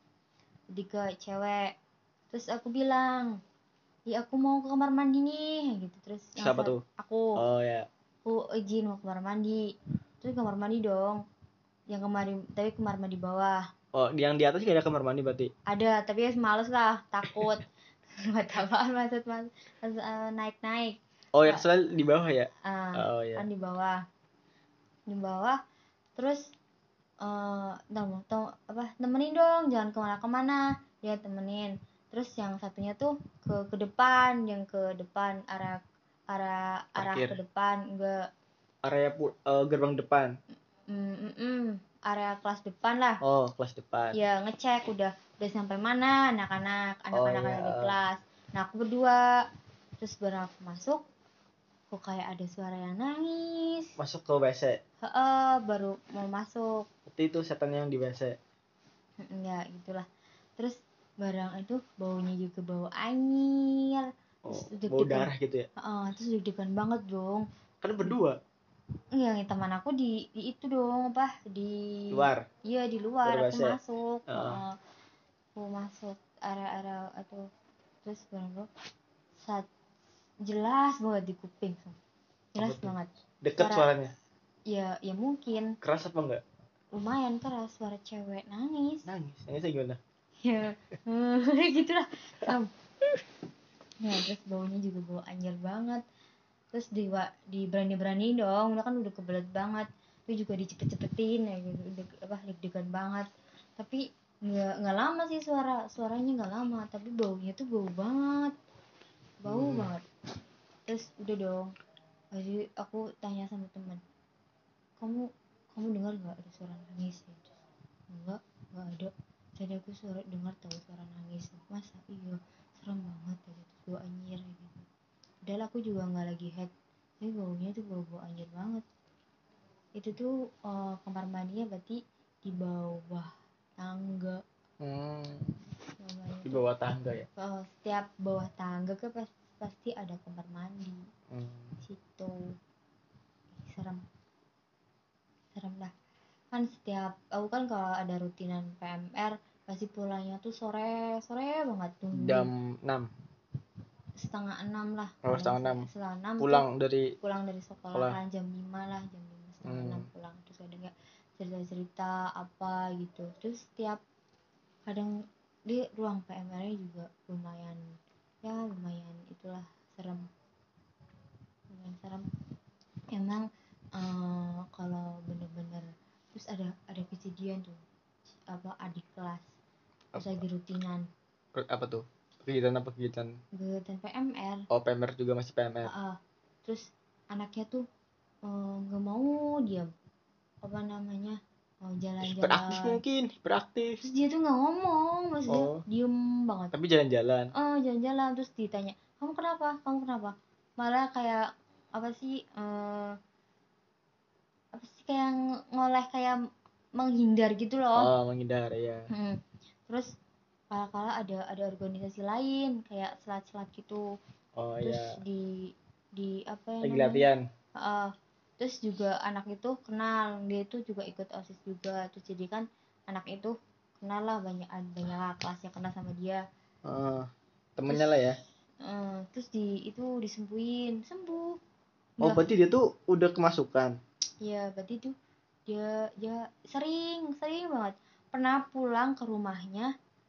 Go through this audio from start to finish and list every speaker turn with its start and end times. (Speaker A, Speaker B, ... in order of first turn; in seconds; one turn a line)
Speaker A: 0.7-1.7
Speaker A: 2.3-3.4
Speaker A: 4.1-7.3
Speaker B: 6.4-6.8
Speaker B: 7.4-7.9
Speaker A: 8.2-9.6
Speaker A: 10.2-11.2
Speaker A: 11.9-13.6
Speaker B: 13.9-15.5
Speaker A: 15.7-17.6
Speaker A: 18.2-21.6
Speaker B: 21.4-23.4
Speaker A: 22.6-24.0
Speaker A: 25.1-25.6
Speaker A: 26.2-26.5
Speaker A: 27.2-38.3
Speaker B: 37.0-37.4
Speaker B: 38.8-40.4
Speaker A: 40.9-43.2
Speaker B: 43.2-44.2
Speaker A: 44.1-49.3
Speaker B: 47.1-47.9
Speaker A: 50.0-51.0
Speaker A: 51.9-53.9
Speaker B: 54.0-54.8
Speaker A: 55.0-56.9
Speaker B: 57.1-58.4
Speaker A: 59.2-60.1
Speaker A: 60.6-67.5
Speaker B: 64.5-65.7
Speaker B: 67.8-68.4
Speaker A: 69.1-74.8
Speaker B: 72.1-72.5
Speaker B: 73.2-73.8
Speaker B: 74.3-74.6
Speaker A: 75.6-77.5
Speaker A: 78.0-78.7
Speaker A: 79.4-79.7
Speaker A: 80.5-82.0
Speaker A: 82.5-83.9
Speaker B: 82.6-84.1
Speaker A: 84.7-85.7
Speaker B: 85.8-86.4
Speaker A: 86.9-89.1
Speaker B: 89.1-90.0
Speaker A: 90.4-92.7
Speaker A: 94.0-96.0
Speaker A: 96.7-103.3
Speaker A: 103.8-108.5
Speaker A: 109.4-110.0
Speaker B: 109.5-109.9
Speaker A: 110.9-111.7
Speaker A: 112.3-114.0
Speaker A: 115.0-117.5
Speaker A: 118.1-124.9
Speaker A: 125.5-128.8
Speaker A: 130.0-134.4
Speaker B: 134.8-135.6
Speaker A: 136.0-136.6
Speaker B: 136.4-137.3
Speaker A: 137.4-141.0
Speaker B: 141.3-141.8
Speaker A: 141.8-142.4
Speaker A: 143.6-144.0
Speaker A: 145.6-145.9
Speaker A: 146.5-152.5
Speaker B: 152.2-153.1
Speaker A: 154.2-156.7
Speaker B: 155.2-155.9
Speaker B: 156.4-157.1
Speaker A: 157.2-164.0
Speaker B: 159.7-160.1
Speaker A: 164.9-165.1
Speaker A: 165.7-170.3
Speaker A: 171.7-172.3
Speaker A: 173.1-177.8
Speaker A: 178.5-179.5
Speaker B: 180.1-180.4
Speaker A: 180.2-181.1
Speaker B: 181.6-183.4
Speaker A: 183.6-184.7
Speaker B: 184.7-185.9
Speaker A: 185.9-187.9
Speaker A: 188.4-189.9
Speaker A: 190.6-193.0
Speaker B: 192.2-194.0
Speaker A: 194.0-196.8
Speaker B: 195.5-195.8
Speaker B: 196.7-197.5
Speaker A: 197.6-201.4
Speaker A: 201.9-203.2
Speaker A: 204.7-206.4
Speaker A: 207.0-208.1
Speaker B: 208.0-209.1
Speaker A: 209.1-210.1
Speaker A: 210.7-214.0
Speaker B: 214.6-215.1
Speaker A: 214.8-217.3
Speaker B: 216.8-217.4
Speaker A: 217.8-226.4
Speaker B: 226.8-228.4
Speaker A: 227.9-228.2
Speaker A: 228.8-231.6
Speaker A: 232.2-232.5
Speaker B: 232.2-234.0
Speaker A: 234.4-235.2
Speaker A: 235.7-239.9